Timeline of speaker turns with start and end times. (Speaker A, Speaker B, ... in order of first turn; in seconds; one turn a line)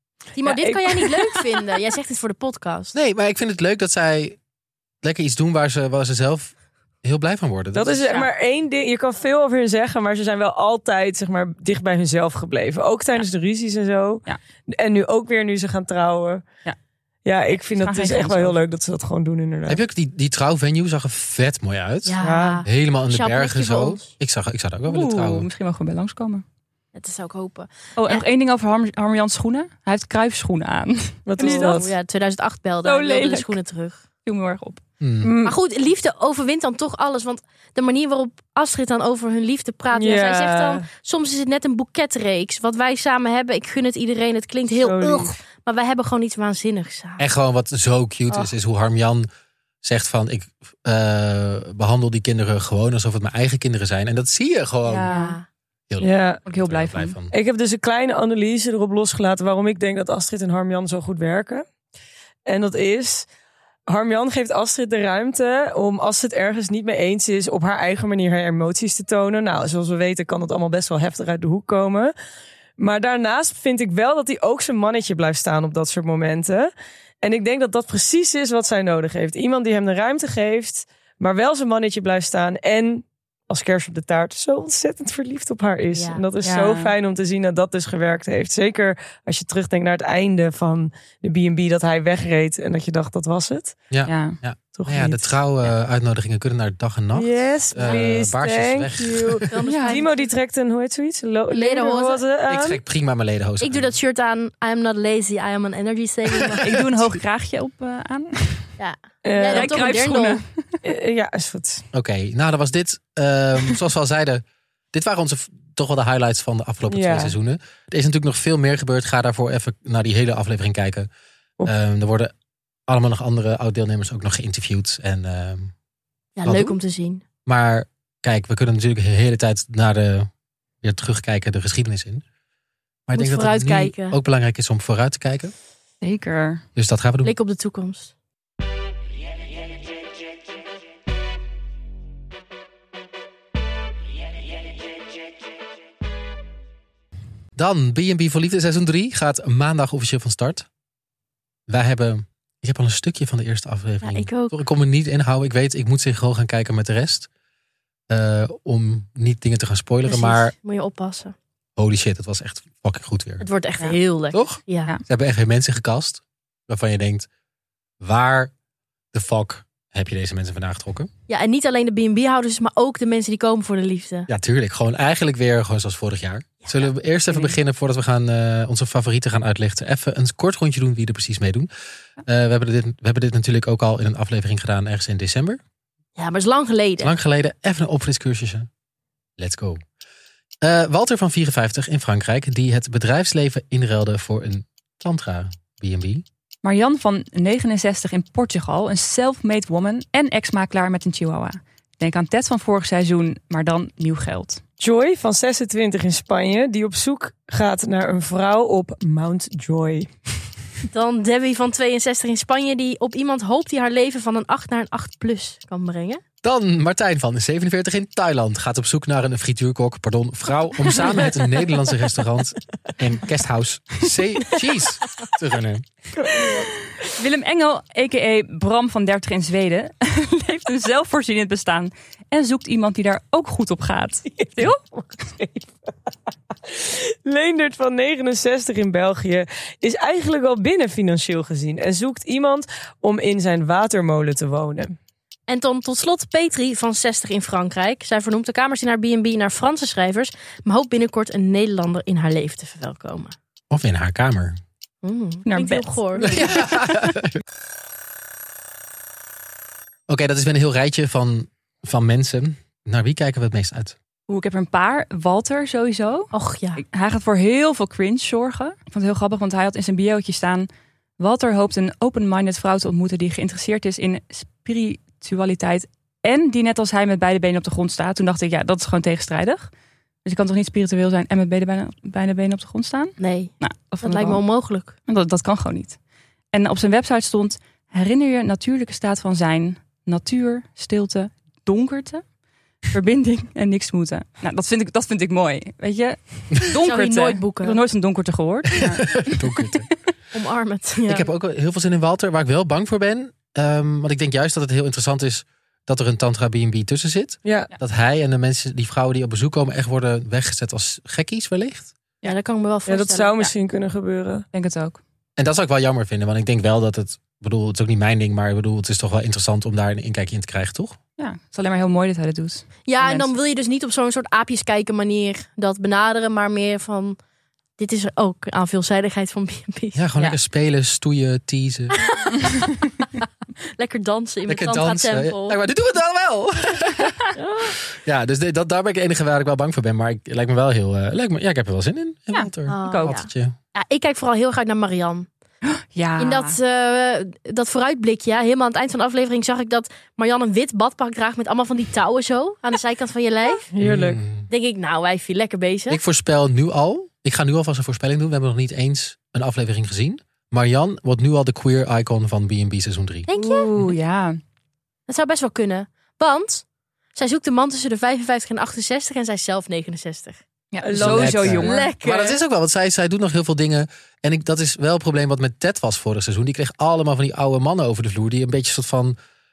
Speaker A: 0.3-2.9
Speaker B: 0.4-1.4
Speaker C: 2.9-4.4
Speaker C: 5.0-8.1
Speaker B: 7.7-16.4
Speaker B: 17.2-19.8
Speaker D: 17.6-18.6
Speaker C: 19.7-25.5
Speaker A: 22.0-24.1
Speaker B: 22.2-22.6
Speaker D: 24.9-26.4
Speaker A: 26.9-28.2
Speaker D: 27.9-31.9
Speaker B: 31.3-31.9
Speaker A: 31.4-34.0
Speaker D: 32.8-33.5
Speaker D: 34.2-34.8
Speaker C: 35.0-35.3
Speaker B: 35.2-35.5
Speaker A: 35.4-47.2
Speaker B: 39.9-40.9
Speaker B: 44.7-45.4
Speaker C: 47.2-49.3
Speaker C: 49.8-55.1
Speaker D: 54.9-55.4
Speaker A: 55.1-55.5
Speaker C: 55.9-57.3
Speaker B: 56.0-56.4
Speaker D: 56.4-57.1
Speaker B: 57.3-61.6
Speaker B: 62.5-63.3
Speaker B: 63.9-72.1
Speaker B: 72.8-76.7
Speaker B: 77.2-93.8
Speaker A: 85.9-86.2
Speaker D: 86.4-86.9
Speaker C: 93.9-99.5
Speaker D: 94.1-94.4
Speaker B: 94.7-95.4
Speaker B: 97.1-102.8
Speaker A: 97.8-98.0
Speaker A: 99.5-100.3
Speaker D: 99.7-100.0
Speaker A: 101.5-102.2
Speaker C: 102.5-103.9
Speaker A: 103.6-106.8
Speaker D: 106.6-108.7
Speaker A: 108.8-110.4
Speaker B: 109.2-109.8
Speaker D: 109.5-110.8
Speaker B: 110.8-111.8
Speaker C: 111.9-121.1
Speaker B: 116.9-117.3
Speaker C: 121.6-122.3
Speaker C: 122.9-125.7
Speaker A: 126.4-127.2
Speaker C: 126.4-126.8
Speaker C: 127.4-130.3
Speaker C: 130.8-132.2
Speaker C: 133.1-135.5
Speaker A: 133.1-134.2
Speaker D: 136.0-136.6
Speaker C: 136.7-137.3
Speaker A: 137.2-138.1
Speaker C: 147.6-150.7
Speaker C: 151.7-157.3
Speaker A: 154.0-154.6
Speaker C: 158.1-160.5
Speaker A: 160.0-161.3
Speaker C: 161.8-163.4
Speaker A: 163.4-164.9
Speaker C: 164.3-167.3
Speaker C: 168.0-168.5
Speaker C: 169.1-171.1
Speaker A: 171.3-174.3
Speaker C: 174.3-181.7
Speaker A: 176.6-176.9
Speaker C: 182.2-185.6
Speaker A: 186.2-187.1
Speaker C: 187.0-188.7
Speaker C: 189.4-189.8
Speaker C: 190.6-196.2
Speaker D: 196.6-204.6
Speaker B: 204.8-210.1
Speaker A: 210.9-216.2
Speaker C: 216.4-225.9
Speaker B: 226.2-226.7
Speaker D: 227.1-234.8
Speaker B: 234.4-236.1
Speaker B: 236.7-244.9
Speaker A: 245.5-253.3
Speaker C: 253.7-254.6
Speaker A: 255.0-256.5
Speaker D: 255.4-256.6
Speaker C: 256.2-257.4
Speaker C: 260.1-263.9
Speaker D: 264.3-270.7
Speaker A: 266.3-266.8
Speaker D: 271.2-279.7
Speaker D: 280.2-284.4
Speaker A: 283.2-284.9
Speaker D: 285.1-286.0
Speaker D: 286.5-292.2
Speaker D: 292.9-299.7
Speaker A: 296.7-297.8
Speaker C: 298.8-299.9
Speaker A: 300.3-301.3
Speaker C: 301.1-311.9
Speaker B: 307.4-307.7
Speaker A: 312.2-313.3
Speaker B: 312.9-314.4
Speaker D: 314.5-315.0
Speaker C: 315.4-321.0
Speaker D: 321.2-323.3
Speaker A: 322.9-327.2
Speaker A: 327.8-330.0
Speaker C: 329.9-332.0
Speaker A: 332.0-332.5
Speaker A: 333.8-335.6
Speaker C: 334.5-343.5
Speaker A: 337.3-337.8
Speaker D: 342.3-343.1
Speaker A: 342.7-345.3
Speaker D: 345.6-346.6
Speaker A: 346.2-353.7
Speaker B: 353.7-354.2
Speaker C: 353.8-354.5
Speaker A: 354.5-356.0
Speaker C: 355.9-363.3
Speaker A: 363.3-363.7
Speaker D: 363.3-364.4
Speaker A: 365.1-370.4
Speaker D: 370.7-371.9
Speaker B: 370.8-371.7
Speaker C: 370.9-379.1
Speaker A: 371.6-372.4